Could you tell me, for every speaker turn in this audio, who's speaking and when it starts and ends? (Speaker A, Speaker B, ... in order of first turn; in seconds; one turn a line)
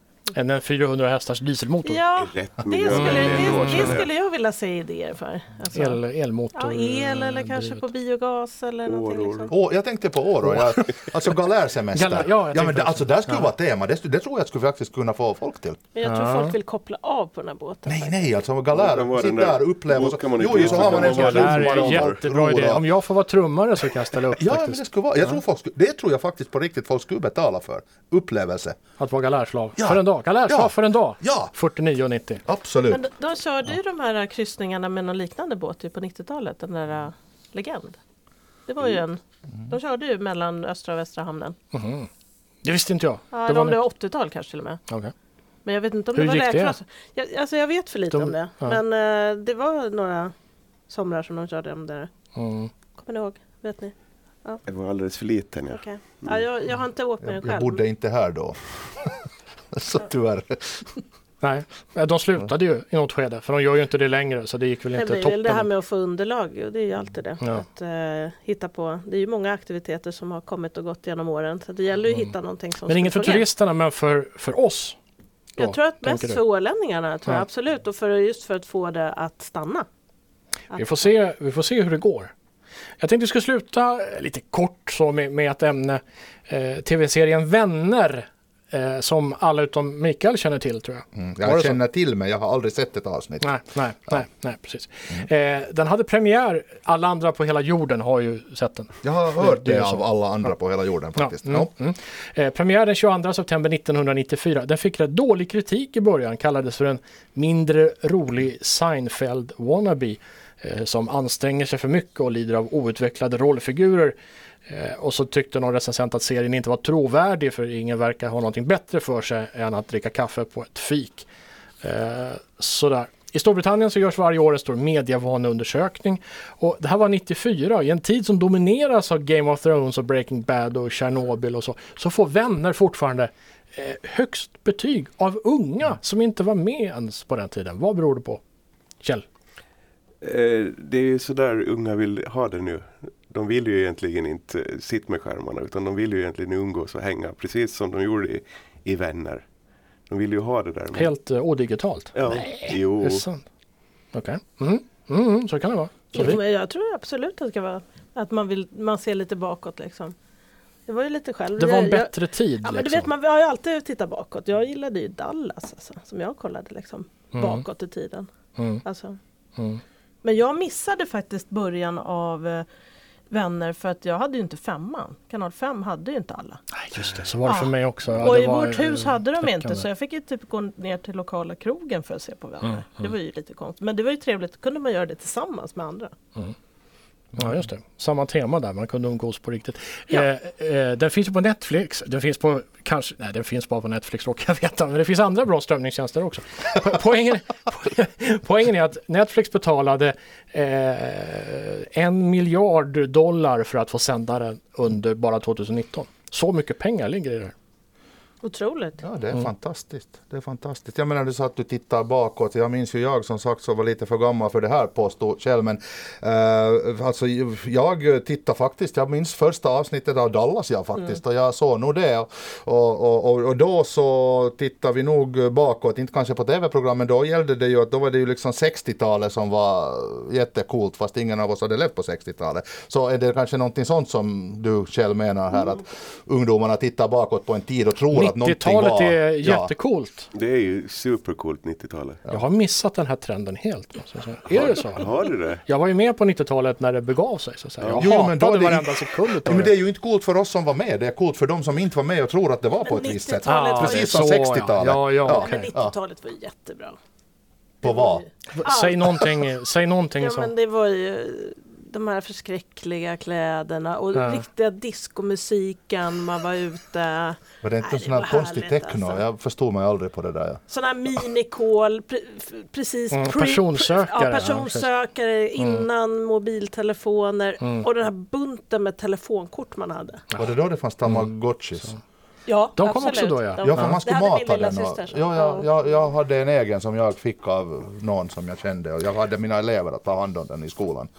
Speaker A: 0.3-2.0
Speaker B: 1.9-6.0
Speaker C: 2.2-4.1
Speaker A: 2.9-4.0
Speaker A: 5.7-7.8
Speaker B: 6.5-9.5
Speaker C: 8.8-9.5
Speaker D: 9.5-15.8
Speaker A: 11.9-13.5
Speaker B: 15.9-18.2
Speaker A: 16.1-16.6
Speaker D: 17.9-22.9
Speaker C: 18.7-22.2
Speaker A: 20.7-25.4
Speaker D: 24.4-28.8
Speaker A: 29.0-32.4
Speaker D: 29.8-31.6
Speaker D: 32.5-33.0
Speaker B: 32.9-38.0
Speaker B: 38.7-41.6
Speaker A: 41.7-42.1
Speaker A: 42.6-43.8
Speaker B: 43.3-44.8
Speaker B: 45.6-50.3
Speaker A: 46.1-46.8
Speaker A: 48.1-48.8
Speaker B: 50.9-52.1
Speaker A: 52.4-52.7
Speaker B: 53.0-53.9
Speaker C: 54.7-56.4
Speaker B: 55.7-57.8
Speaker D: 57.2-59.2
Speaker D: 59.7-60.9
Speaker A: 61.4-65.7
Speaker B: 65.0-73.5
Speaker A: 72.9-75.0
Speaker B: 75.6-79.9
Speaker A: 75.6-76.4
Speaker B: 80.7-81.0
Speaker A: 80.7-82.3
Speaker A: 83.0-91.8
Speaker D: 91.2-93.6
Speaker A: 93.4-100.0
Speaker D: 99.0-101.7
Speaker A: 101.2-114.2
Speaker A: 114.7-121.3
Speaker A: 121.8-138.4
Speaker C: 140.2-149.4
Speaker C: 150.1-151.1
Speaker A: 150.9-153.5
Speaker C: 152.1-153.2
Speaker A: 154.1-156.4
Speaker B: 156.1-160.1
Speaker B: 160.9-168.3
Speaker A: 161.6-163.1
Speaker A: 167.3-167.6
Speaker A: 168.6-168.8
Speaker B: 168.8-169.2
Speaker A: 169.6-169.8
Speaker B: 170.2-172.7
Speaker B: 173.3-176.6
Speaker A: 176.8-179.8
Speaker B: 177.4-186.1
Speaker A: 187.4-207.5
Speaker B: 208.4-209.0
Speaker D: 209.0-239.7
Speaker A: 238.1-240.3
Speaker C: 240.3-242.2
Speaker A: 242.3-245.1
Speaker C: 244.6-245.6
Speaker A: 245.7-249.7
Speaker C: 247.8-248.1
Speaker D: 248.0-255.9
Speaker B: 252.9-254.1
Speaker A: 253.4-255.7
Speaker B: 255.3-257.0
Speaker D: 257.8-258.2
Speaker B: 257.8-259.4
Speaker A: 258.5-260.5
Speaker B: 260.2-269.2
Speaker A: 264.1-264.4
Speaker D: 267.6-270.6
Speaker B: 270.7-280.2
Speaker A: 273.1-274.9
Speaker A: 275.6-275.9
Speaker D: 280.4-281.9
Speaker A: 281.1-281.3
Speaker B: 282.5-285.7
Speaker A: 282.8-284.0
Speaker D: 283.6-291.1